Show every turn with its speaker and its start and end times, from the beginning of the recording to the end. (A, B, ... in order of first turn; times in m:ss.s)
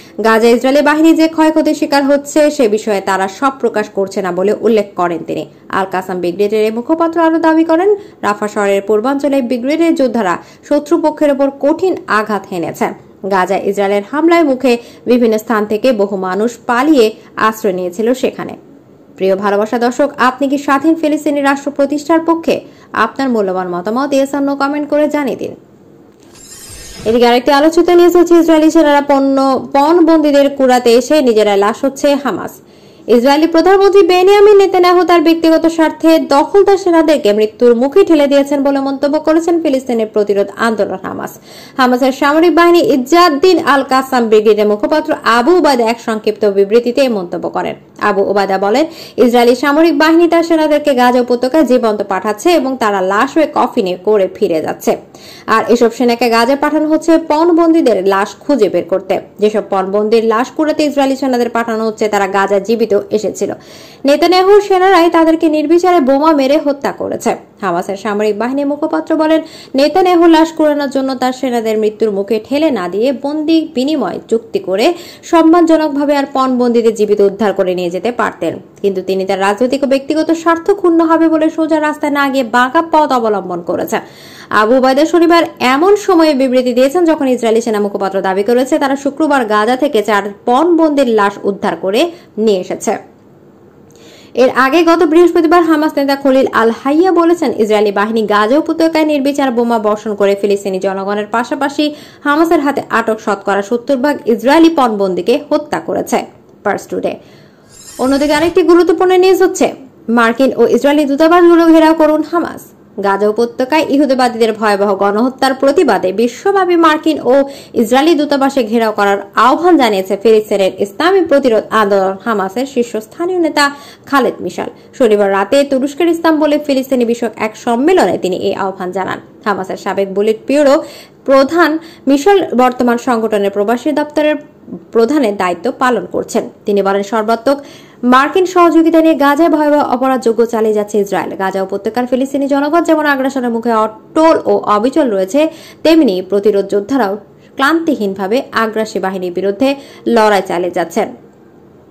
0:00.2-0:18.6 A
0:19.2-0:25.6 A
0:27.1-0:32.6 A
0:33.1-0:55.0 A
0:55.5-1:03.5 A
1:04.1-1:24.0 A
1:24.6-1:33.0 A
1:34.4-1:47.2 A
1:48.0-2:14.4 A
2:14.9-2:17.6 A
2:18.1-2:31.1 A